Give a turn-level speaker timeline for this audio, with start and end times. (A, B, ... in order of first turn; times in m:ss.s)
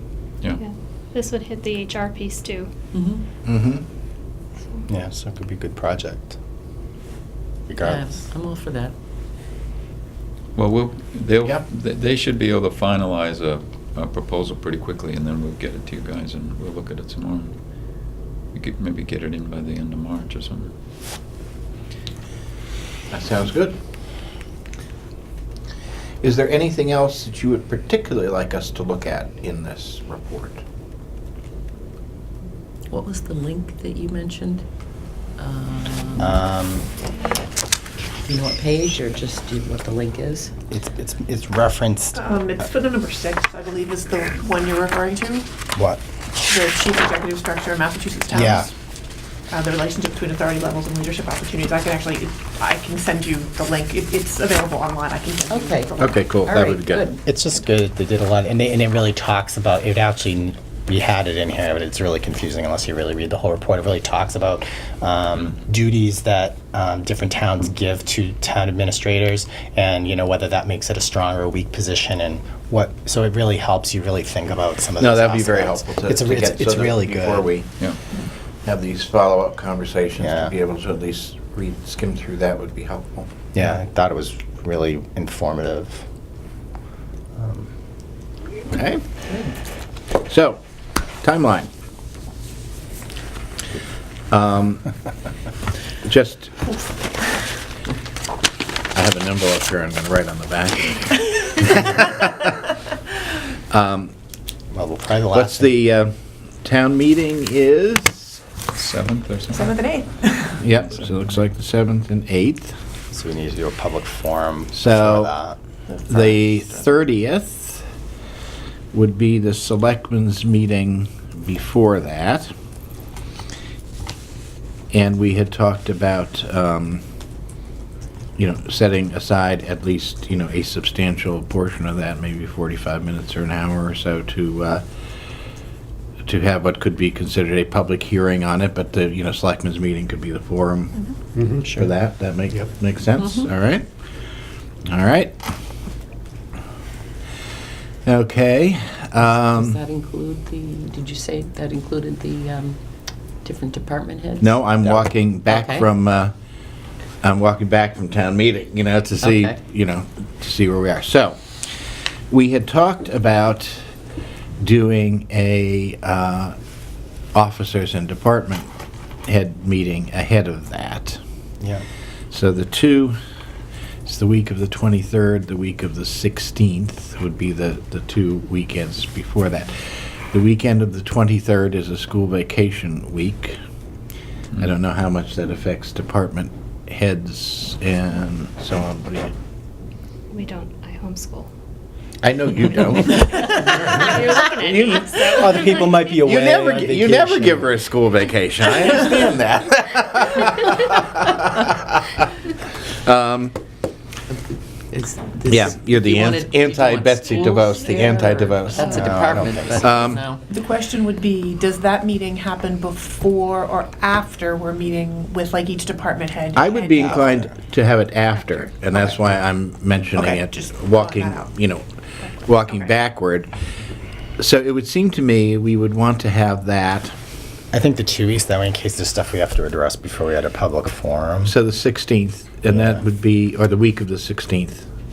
0:00.6-0:02.7 A
0:02.9-0:03.2 B
0:03.4-0:03.8 C
0:04.9-0:06.4 D
0:07.7-0:08.1 D
0:07.8-0:09.0 B
0:10.5-0:17.6 E
0:18.5-0:20.7 E
0:23.1-0:23.8 C
0:26.2-0:30.6 C
0:32.9-0:34.6 B
0:35.4-0:36.4 B
0:36.2-0:36.9 D
0:38.3-0:40.5 B
0:40.7-0:42.2 D
0:42.2-0:45.5 F
0:45.8-0:46.0 D
0:46.5-0:48.7 F
0:48.3-0:48.7 D
0:49.5-0:56.4 F
0:55.5-0:57.2 B
0:56.0-0:57.1 C
0:57.2-1:17.5 D
1:15.0-1:17.7 C
1:18.6-1:23.3 C
1:20.2-1:20.5 D
1:23.5-1:26.0 D
1:27.3-1:27.7 D
1:28.7-1:29.0 C
1:30.2-1:30.6 C
1:31.2-1:31.7 C
1:34.3-1:34.9 C
1:36.0-1:36.6 C
1:38.9-1:42.5 C
1:43.7-1:44.1 C
1:44.7-1:45.7 D
1:45.3-1:48.4 C
1:48.7-1:49.7 E
1:49.5-1:50.6 F
1:50.6-1:52.8 C
1:50.8-1:51.1 E
1:53.1-1:55.6 D
1:54.7-1:55.3 C
1:55.9-1:56.8 F
1:56.1-1:57.8 C
1:58.9-2:02.5 C
2:04.9-2:07.0 C
2:08.4-2:14.8 C
2:16.2-2:21.0 C
2:21.4-2:21.9 D
2:21.7-2:23.9 C
2:24.8-2:25.4 C
2:28.1-2:29.8 C
2:29.2-2:32.8 B
2:33.4-2:34.6 B
2:34.4-2:36.3 C
2:35.5-2:35.9 B
2:37.2-2:41.5 C
2:39.2-2:39.6 B
2:42.3-2:43.8 C
2:44.6-2:46.5 C
2:47.3-2:48.7 C
2:49.3-2:51.2 C
2:51.6-2:51.8 D
2:52.3-2:53.2 C
2:54.1-3:03.6 C
3:04.6-3:09.3 C
3:10.3-3:11.5 A
3:12.2-3:15.2 C
3:13.8-3:16.2 A
3:14.4-3:17.7 D
3:16.2-3:22.2 C
3:23.0-3:23.6 C
3:24.9-3:30.4 B
3:25.5-3:29.0 C
3:27.3-3:28.0 A
3:28.8-3:30.0 D
3:29.8-3:30.2 C
3:30.5-3:37.5 F
3:36.5-3:41.8 C
3:40.1-3:41.5 F
3:42.4-3:42.9 F
3:42.4-3:43.5 C
3:44.4-3:47.1 C
3:47.7-3:51.5 D
3:51.4-3:54.9 C
3:52.7-3:53.0 D